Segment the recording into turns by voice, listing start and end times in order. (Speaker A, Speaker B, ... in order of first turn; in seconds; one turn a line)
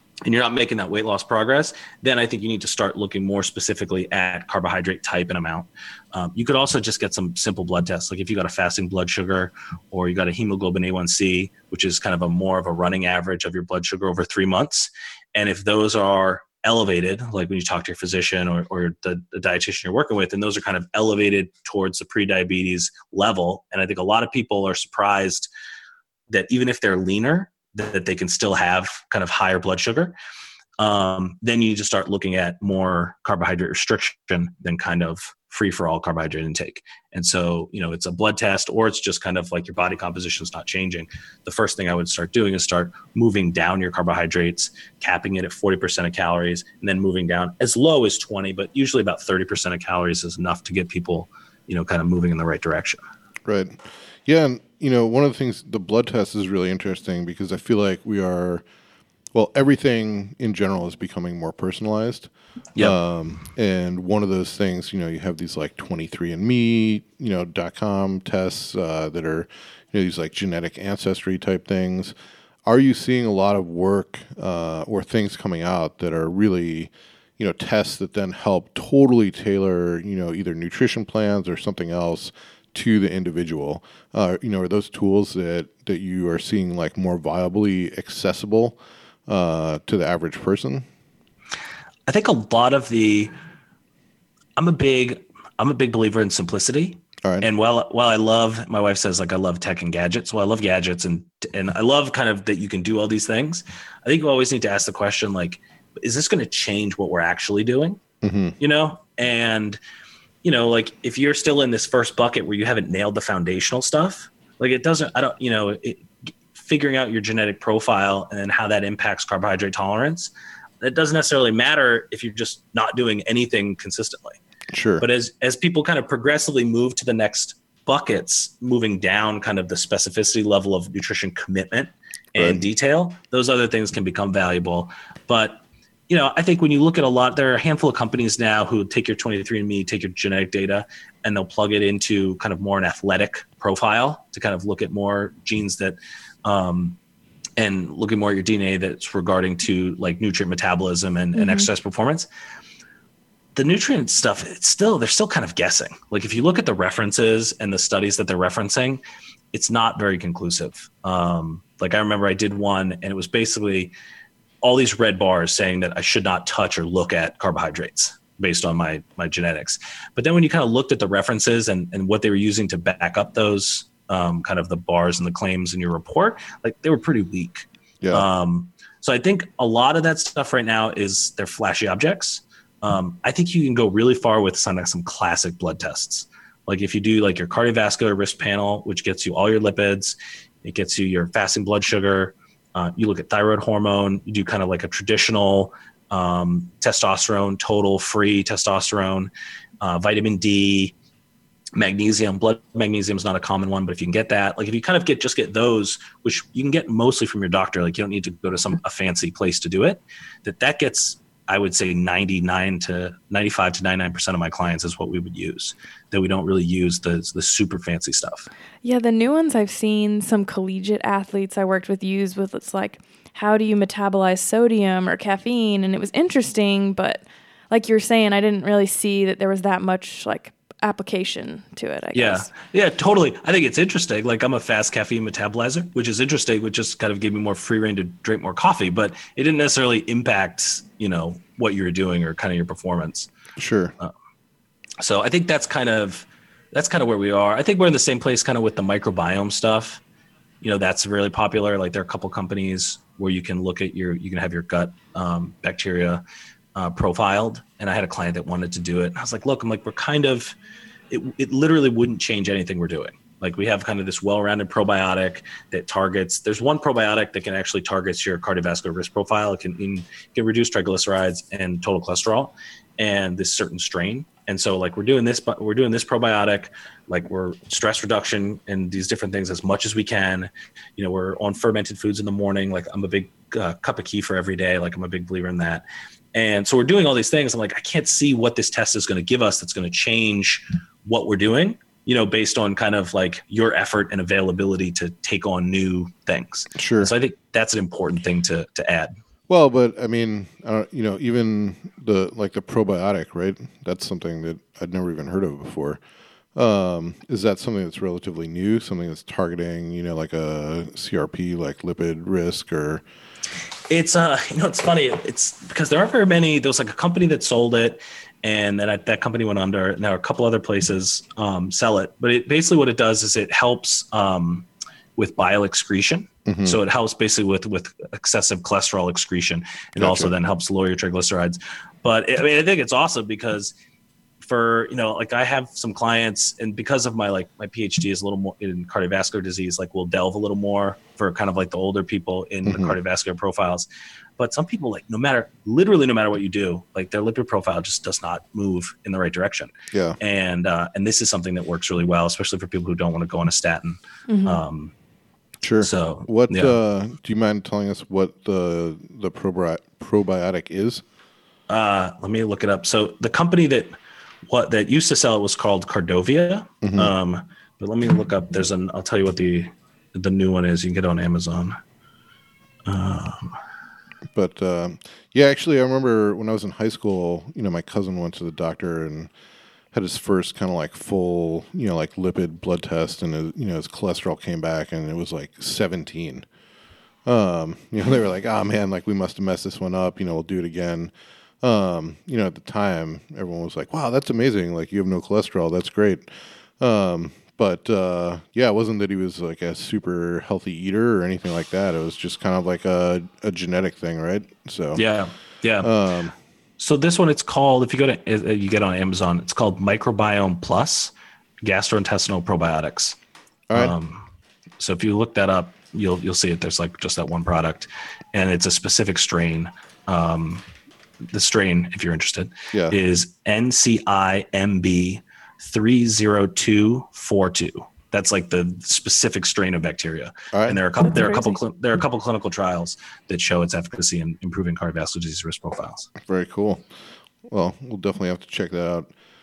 Speaker A: 0.2-25.5
Speaker A: 26.3-30.1
Speaker A: 30.8-53.0
Speaker B: 53.5-58.6
Speaker B: 59.3-72.1
Speaker B: 72.7-90.8
Speaker A: 92.1-93.3
Speaker A: 94.6-108.0
Speaker B: 108.2-108.6
Speaker A: 108.6-109.8
Speaker A: 110.4-124.4
Speaker B: 124.7-125.0
Speaker A: 125.0-147.0
Speaker B: 132.4-132.6
Speaker A: 147.6-152.3
Speaker C: 151.4-151.7
Speaker A: 153.6-159.0
Speaker A: 159.5-163.9
Speaker A: 164.6-200.9
Speaker B: 178.0-178.3
Speaker A: 201.8-218.5
Speaker C: 218.8-232.5
Speaker A: 232.1-243.3
Speaker B: 243.6-243.9
Speaker A: 245.0-250.0
Speaker A: 250.6-256.2
Speaker A: 256.8-260.6
Speaker A: 261.1-299.1
Speaker B: 296.8-297.1
Speaker B: 299.5-306.0
Speaker B: 306.6-313.0
Speaker A: 313.9-333.7
Speaker B: 326.5-326.8
Speaker B: 330.0-330.3
Speaker A: 334.4-343.9
Speaker B: 342.7-343.0
Speaker A: 344.4-354.9
Speaker B: 349.9-350.2
Speaker C: 354.3-354.6
Speaker B: 355.6-361.0
Speaker A: 355.8-356.8
Speaker A: 361.7-363.9
Speaker A: 364.5-371.8
Speaker B: 366.8-367.1
Speaker A: 372.9-373.6
Speaker B: 374.3-379.3
Speaker B: 379.9-386.5
Speaker B: 387.3-405.0
Speaker A: 404.9-405.9
Speaker B: 405.8-406.3
Speaker A: 406.8-413.2
Speaker B: 413.7-414.0
Speaker A: 413.7-414.3
Speaker A: 414.8-420.6
Speaker A: 421.3-436.1
Speaker B: 422.7-423.0
Speaker B: 430.5-430.8
Speaker C: 431.0-431.6
Speaker B: 436.2-436.9
Speaker B: 437.5-439.1